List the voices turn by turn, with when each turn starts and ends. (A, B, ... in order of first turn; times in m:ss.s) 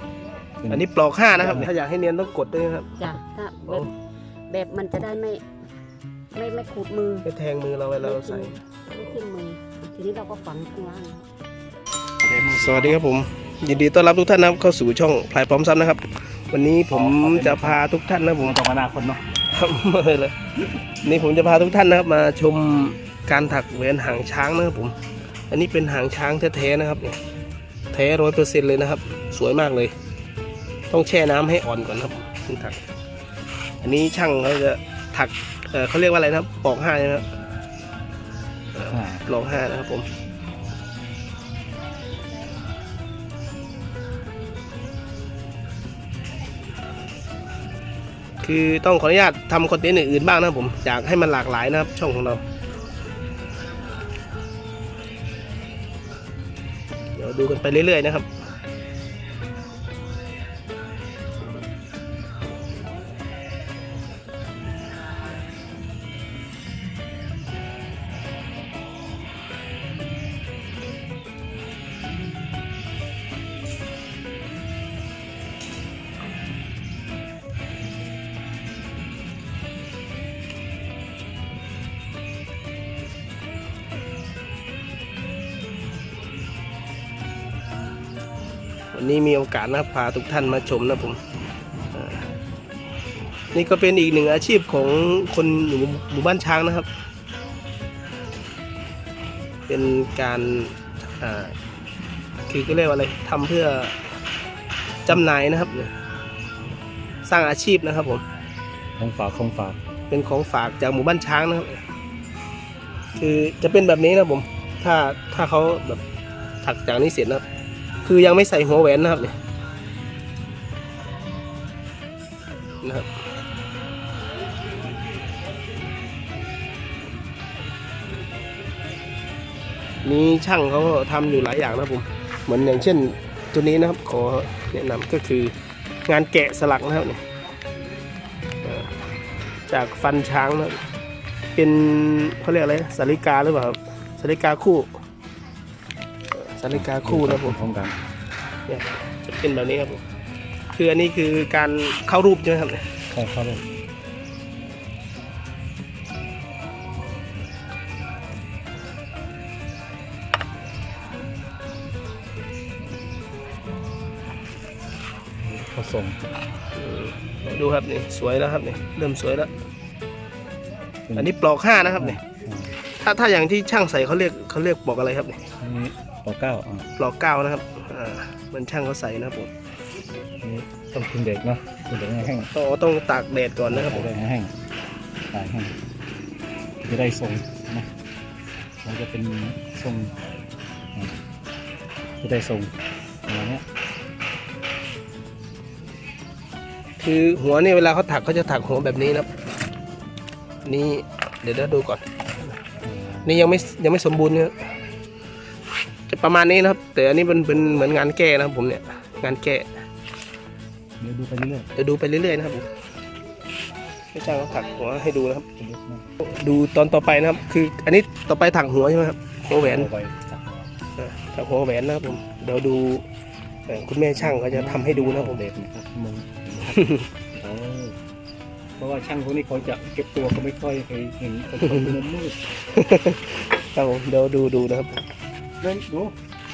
0:00.6-0:01.7 A
0:00.7-0:02.9 B
0:03.0-0:03.9 C
0:04.5-0:05.4 C
0:06.3-0:07.3 C
0:07.2-0:09.1 B
0:08.0-0:11.2 C
0:12.2-0:13.0 A
0:12.5-0:18.6 B
0:16.9-0:17.8 A
0:18.4-0:19.2 A
0:19.5-0:25.0 B
0:25.5-0:27.2 B
0:27.9-0:29.9 B
0:30.9-0:32.8 B
0:33.8-0:37.3 B
0:38.7-0:40.1 B
0:38.9-0:39.3 A
0:48.4-0:52.4 B
0:57.2-0:58.3 B
1:28.9-1:31.2 B
1:31.9-1:32.3 B
1:33.5-1:36.9 B
1:39.7-1:41.5 B
1:42.5-1:43.9 B
1:45.0-1:45.9 B
1:47.2-1:48.2 B
1:49.0-1:49.8 A
1:50.1-1:51.8 B
1:53.2-1:56.0 B
1:56.6-1:57.4 B
1:58.0-1:59.4 B
2:10.0-2:15.5 B
2:16.1-2:17.2 B
2:18.6-2:18.9 B
2:19.7-2:20.8 B
2:21.6-2:25.0 B
2:26.3-2:27.6 B
2:26.7-2:28.0 A
2:28.7-2:30.0 B
2:30.7-2:32.9 B
2:33.1-2:33.6 A
2:45.4-2:46.2 A
2:46.7-2:49.5 B
2:51.1-2:51.3 A
2:51.2-2:52.2 B
2:51.9-2:52.8 A
2:53.0-2:55.5 B
2:55.6-2:56.9 A
2:57.0-2:59.5 B
3:00.4-3:02.5 A
3:02.5-3:04.1 B
3:03.7-3:04.5 A
3:05.3-3:05.7 A
3:06.8-3:07.9 A
3:08.8-3:10.1 A
3:12.2-3:12.7 A
3:13.3-3:13.6 A
3:17.0-3:19.3 B
3:20.6-3:22.0 B
3:22.8-3:23.3 A
3:23.2-3:24.6 B
3:26.1-3:29.7 B
3:31.0-3:31.7 A
3:31.8-3:32.7 B
3:34.1-3:35.5 B
3:35.6-3:36.1 A
3:36.2-3:39.9 B
3:39.5-3:40.7 A
3:41.0-3:43.0 B
3:43.7-3:45.4 B
3:44.1-3:48.0 A
3:46.7-3:47.1 B
3:48.8-3:52.4 A
3:51.6-3:51.9 B
3:52.7-3:55.0 B
3:55.6-3:56.2 A